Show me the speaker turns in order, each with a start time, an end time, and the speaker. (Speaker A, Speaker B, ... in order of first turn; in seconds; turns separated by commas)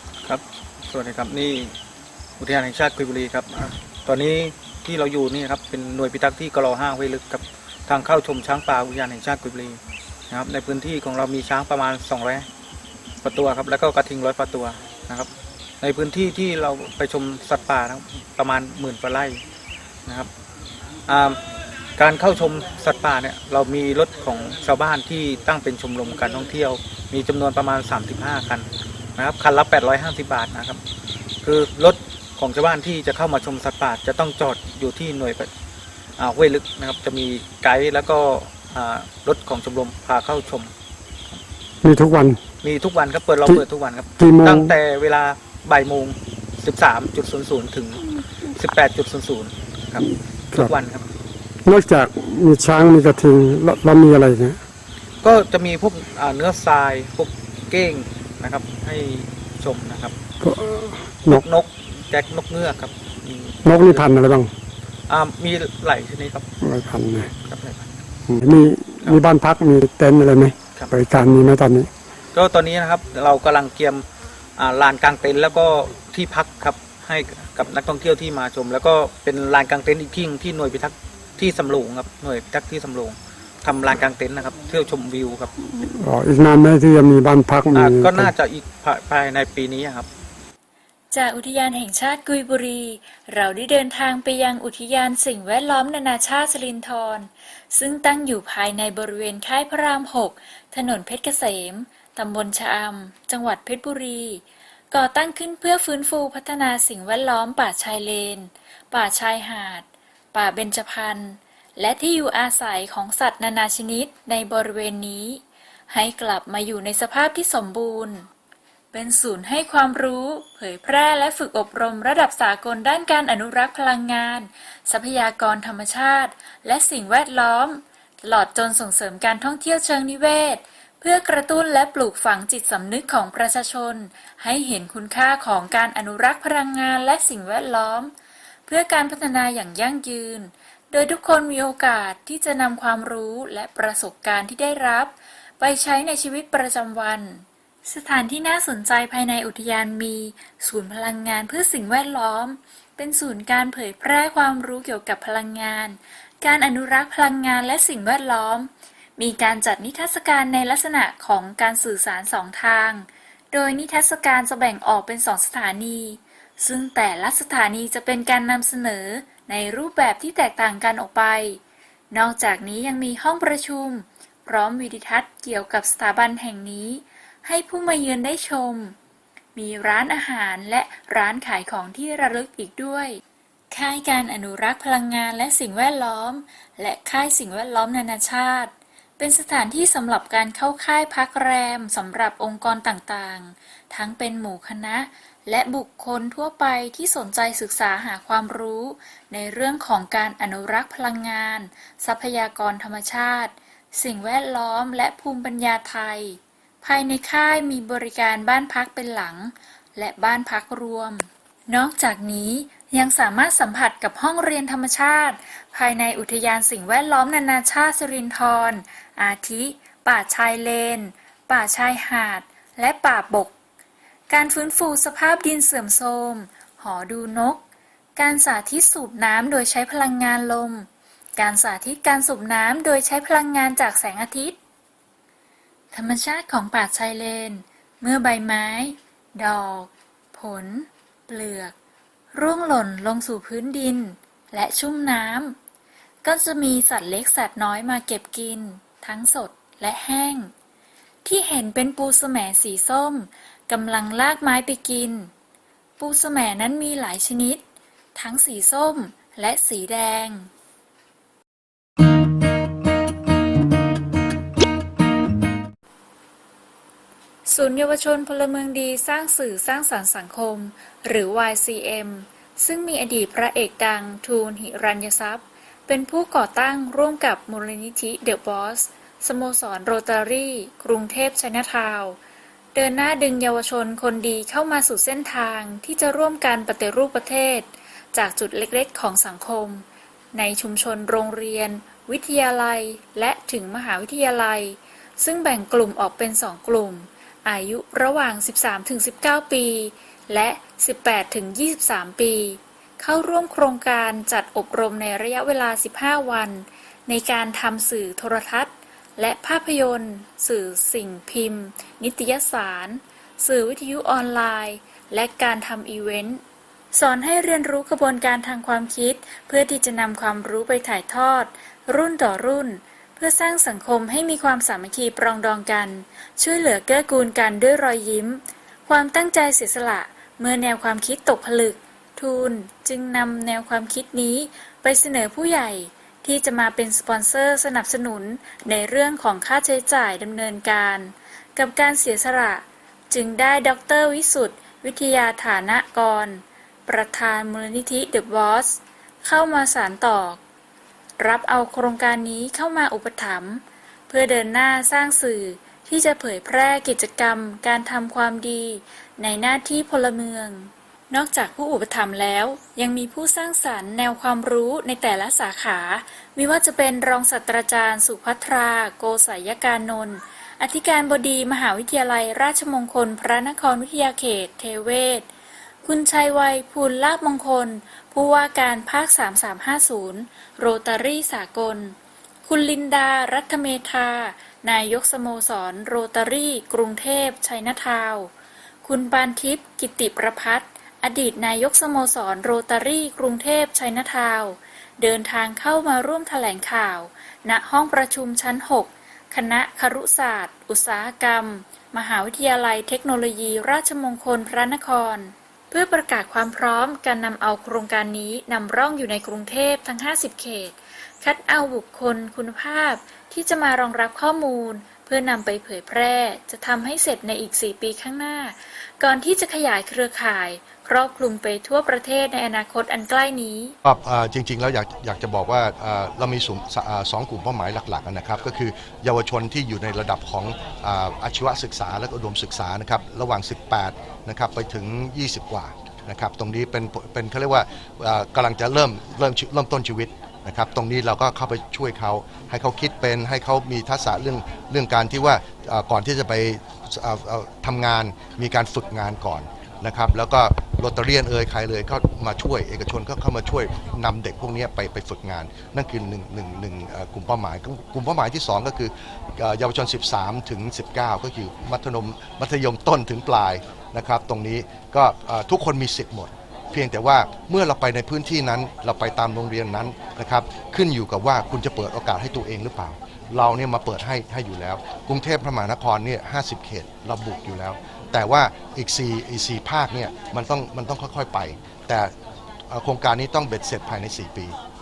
Speaker A: 0.3-1.7, Speaker A: 2.4-12.5, Speaker A: 13.2-15.3, Speaker A: 15.8-19.4, Speaker A: 21.1-21.4, Speaker A: 22.0-30.8, Speaker A: 31.4-35.5, Speaker A: 36.2-40.7, Speaker B: 41.8-42.4, Speaker A: 42.6-48.0, Speaker B: 44.2-44.7, Speaker A: 48.5-51.0, Speaker B: 51.6-54.6, Speaker A: 55.2-60.1, Speaker B: 60.4-61.4, Speaker A: 61.3-64.1, Speaker B: 63.6-64.5, Speaker A: 65.1-66.5, Speaker B: 66.6-67.3, Speaker A: 67.5-67.9, Speaker B: 68.3-71.9, Speaker A: 72.3-74.0, Speaker A: 74.6-85.5, Speaker B: 85.6-88.3, Speaker A: 87.7-90.1, Speaker C: 91.1-118.3, Speaker C: 118.9-138.1, Speaker C: 138.7-171.6, Speaker C: 172.1-178.9, Speaker C: 179.6-183.2, Speaker C: 183.7-223.5, Speaker C: 224.3-227.6, Speaker C: 228.2-234.6, Speaker C: 235.9-241.7, Speaker C: 242.3-245.6, Speaker C: 246.2-250.5, Speaker C: 251.2-255.3, Speaker C: 256.0-257.6, Speaker C: 258.1-260.5, Speaker C: 267.4-282.2, Speaker C: 282.7-316.4, Speaker C: 316.9-350.4, Speaker C: 351.2-375.3, Speaker C: 375.8-381.9, Speaker C: 382.4-388.3, Speaker C: 388.8-423.7, Speaker D: 423.8-482.1, Speaker D: 482.7-484.5